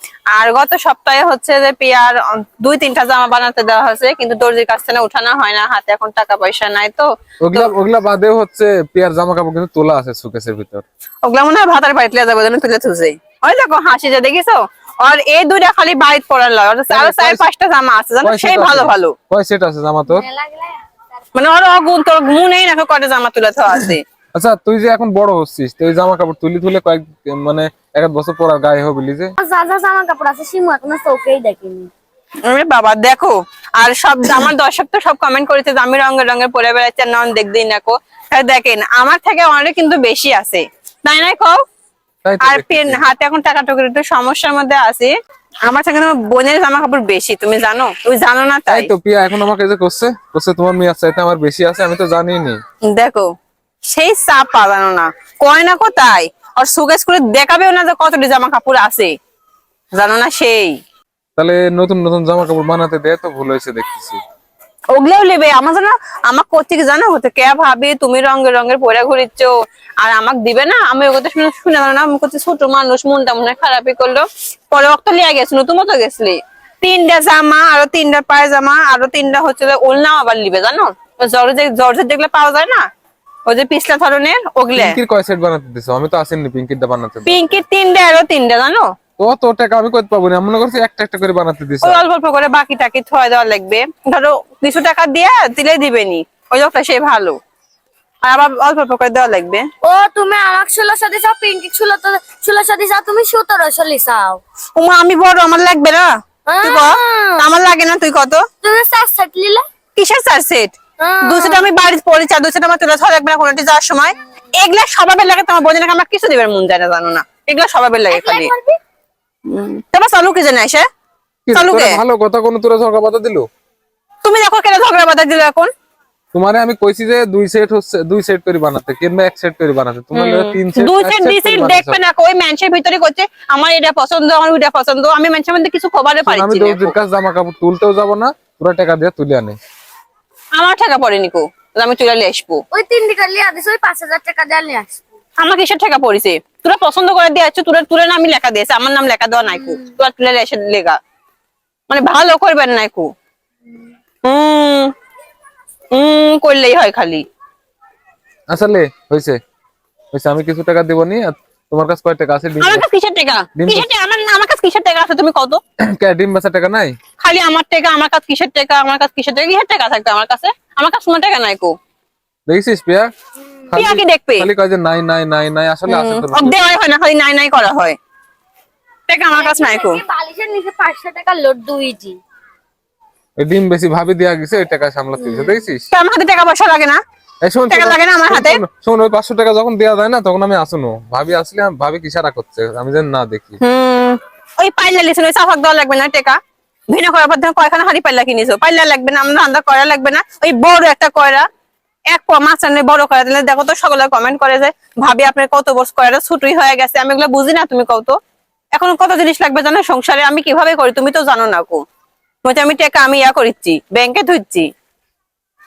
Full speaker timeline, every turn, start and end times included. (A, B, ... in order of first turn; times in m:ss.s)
0:00.3-0:07.7 A
0:07.4-0:10.8 B
0:11.3-0:19.1 A
0:16.9-0:17.4 B
0:18.2-0:20.3 B
0:20.0-0:20.8 C
0:21.3-0:24.0 A
0:23.8-0:29.3 B
0:29.4-0:31.9 C
0:32.4-0:41.6 A
0:42.2-0:43.0 B
0:42.4-0:45.1 A
0:45.7-0:48.9 A
0:48.7-0:52.6 B
0:52.9-0:53.3 A
0:53.9-0:59.1 A
1:00.0-1:00.8 A
1:01.4-1:04.2 B
1:04.9-1:22.8 A
1:23.5-1:25.0 A
1:24.8-1:27.6 B
1:27.2-1:28.9 A
1:29.2-1:32.0 B
1:31.8-1:37.4 A
1:38.2-1:39.7 A
1:39.8-1:44.4 C
1:44.8-1:48.4 A
1:46.5-1:47.4 C
1:48.6-1:49.6 C
1:50.0-1:58.5 A
1:51.0-1:51.7 C
1:58.1-1:58.8 C
1:59.5-2:00.8 A
2:01.4-2:03.4 B
2:01.5-2:02.0 A
2:04.2-2:05.7 A
2:06.3-2:12.0 B
2:10.1-2:16.9 A
2:16.2-2:19.6 B
2:20.6-2:22.6 A
2:22.7-2:25.0 C
2:25.4-2:31.0 A
2:31.9-2:33.1 A
2:34.2-2:34.9 A
2:35.9-2:37.2 A
2:38.5-2:39.4 B
2:40.1-2:42.8 B
2:42.6-2:45.6 A
2:43.6-2:43.9 B
2:45.8-2:46.9 B
2:47.2-2:51.7 A
2:52.5-2:53.1 B
2:53.7-2:56.6 B
2:53.7-2:54.5 A
2:55.9-2:58.0 A
2:59.1-3:00.0 A
2:59.3-3:02.2 C
3:03.4-3:05.9 B
3:05.2-3:05.6 C
3:05.9-3:07.0 A
3:07.4-3:13.6 B
3:07.7-3:08.6 A
3:13.6-3:16.4 A
3:16.9-3:21.4 A
3:22.1-3:28.2 A
3:28.8-3:31.8 A
3:32.4-3:34.7 A